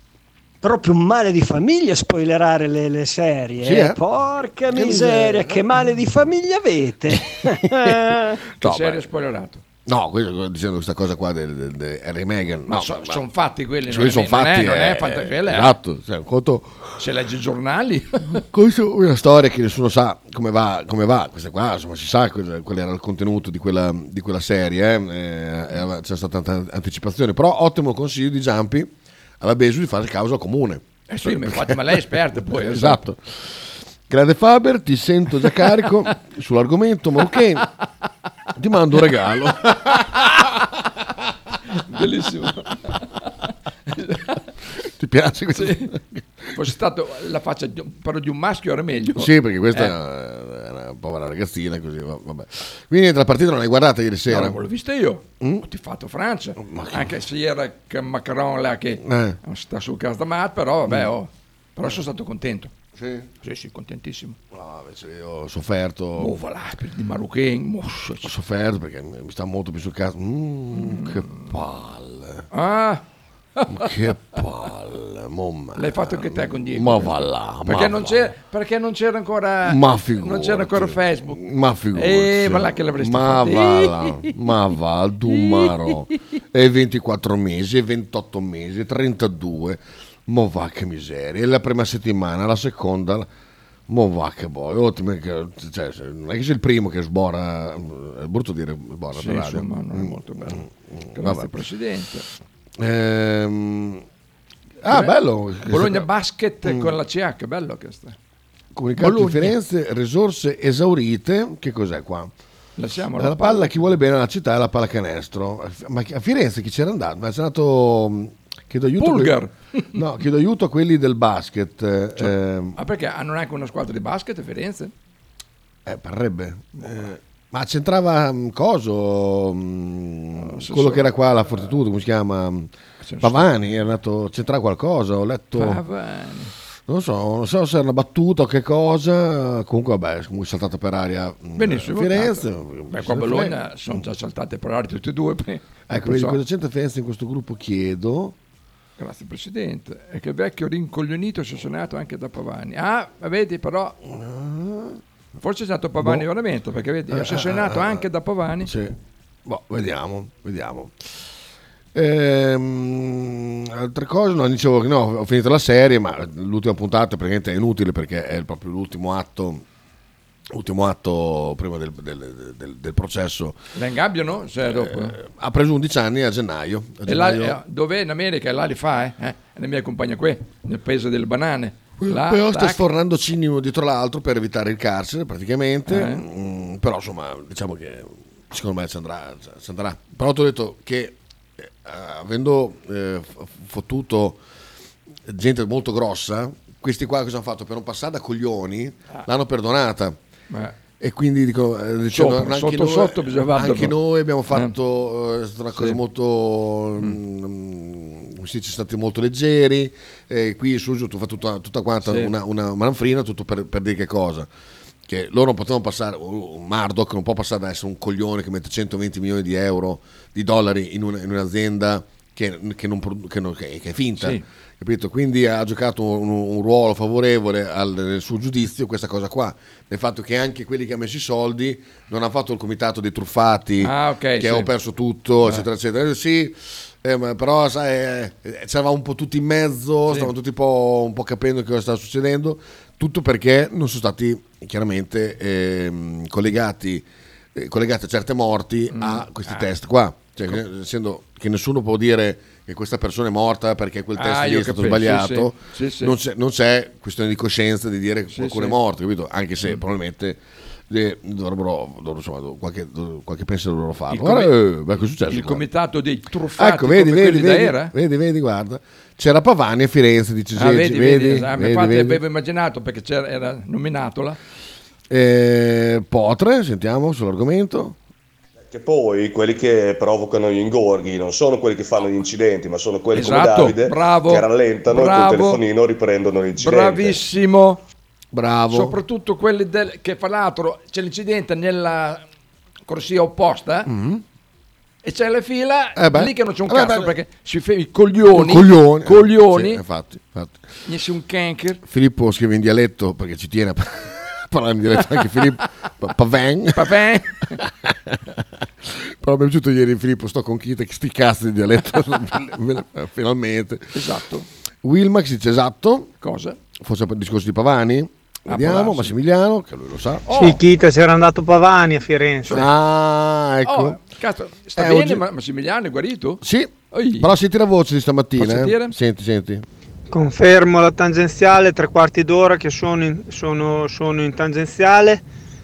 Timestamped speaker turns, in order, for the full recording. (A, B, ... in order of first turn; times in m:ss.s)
0:00.6-0:08.4 A
0:03.6-0:04.0 B
0:04.7-0:05.8 B
0:07.3-0:09.0 B
0:08.6-0:09.6 C
0:09.9-0:13.2 B
0:12.7-0:15.8 C
0:13.9-0:16.9 B
0:17.0-0:18.4 C
0:18.5-0:37.7 B
0:31.1-0:33.0 C
0:38.6-0:40.0 B
0:39.9-0:40.6 C
0:41.9-0:43.1 C
0:43.9-0:44.4 C
0:44.8-0:46.4 B
0:45.6-0:45.9 C
0:46.6-0:49.9 C
0:49.2-0:54.6 B
0:54.3-1:02.7 C
0:56.6-0:57.1 B
0:59.0-0:59.4 B
1:03.0-1:03.3 B
1:03.4-1:04.4 C
1:04.5-1:06.3 B
1:06.2-1:08.3 C
1:08.2-1:12.5 B
1:10.7-1:11.5 C
1:12.5-1:13.0 C
1:13.6-1:14.0 C
1:13.7-1:18.3 B
1:15.8-1:21.4 C
1:19.6-1:33.3 B
1:22.0-1:23.9 C
1:33.9-1:41.5 B
1:39.2-1:40.6 C
1:41.2-1:42.3 C
1:42.8-1:44.0 B
1:44.8-1:46.1 B
1:44.9-1:48.2 C
1:46.6-1:47.0 B
1:48.8-1:52.3 B
1:49.0-1:49.6 C
1:52.8-1:53.9 C
1:53.2-1:59.4 B
1:59.0-1:59.9 C
1:59.9-2:02.8 B
2:02.2-2:04.9 C
2:05.8-2:15.8 B
2:06.8-2:07.1 C
2:10.4-2:11.1 C
2:13.0-2:13.5 C
2:15.6-2:16.5 C
2:16.9-2:23.6 B
2:21.6-2:26.4 C
2:25.9-2:28.4 B
2:29.0-2:34.0 C
2:34.0-2:35.0 B
2:35.4-2:38.7 C
2:36.0-2:36.3 B
2:37.1-2:38.0 B
2:38.6-2:41.1 B
2:41.9-2:49.6 B
2:50.5-2:53.6 B
2:53.8-2:55.2 C
2:54.6-2:57.6 B
2:57.1-3:02.8 C
3:02.0-3:14.4 B
3:05.9-3:06.2 C
3:15.3-3:20.2 B
3:20.5-3:20.8 C
3:21.0-3:34.5 B
3:22.1-3:24.0 C
3:32.0-3:32.3 C
3:35.1-4:25.6 B
3:53.8-3:54.7 C
4:08.9-4:09.7 C
4:14.2-4:16.2 C
4:18.3-4:18.8 C
4:24.1-4:24.5 C
4:25.3-4:27.9 C
4:26.6-4:32.2 B
4:30.6-4:34.4 C
4:35.1-4:38.0 B
4:38.7-4:47.2 D
4:43.1-4:45.6 C
4:46.6-4:47.8 C
4:48.3-4:49.0 B
4:48.7-4:52.2 C
4:52.9-4:53.9 C
4:53.9-4:54.2 B
4:55.0-4:59.8 C
4:56.0-4:57.1 B
4:58.3-5:00.6 B
5:00.8-5:01.8 C
5:01.8-5:07.0 B
5:06.8-5:07.6 C
5:07.6-5:14.0 B
5:13.9-5:14.5 C
5:14.8-5:16.1 B
5:16.2-5:16.6 C
5:16.8-5:20.3 B
5:18.5-5:19.2 C
5:20.3-5:20.6 C
5:20.4-5:22.7 E
5:22.5-5:24.0 B
5:23.7-5:27.3 C
5:24.8-5:25.2 B
5:26.4-5:29.6 B
5:28.4-5:29.0 C
5:30.1-5:35.2 E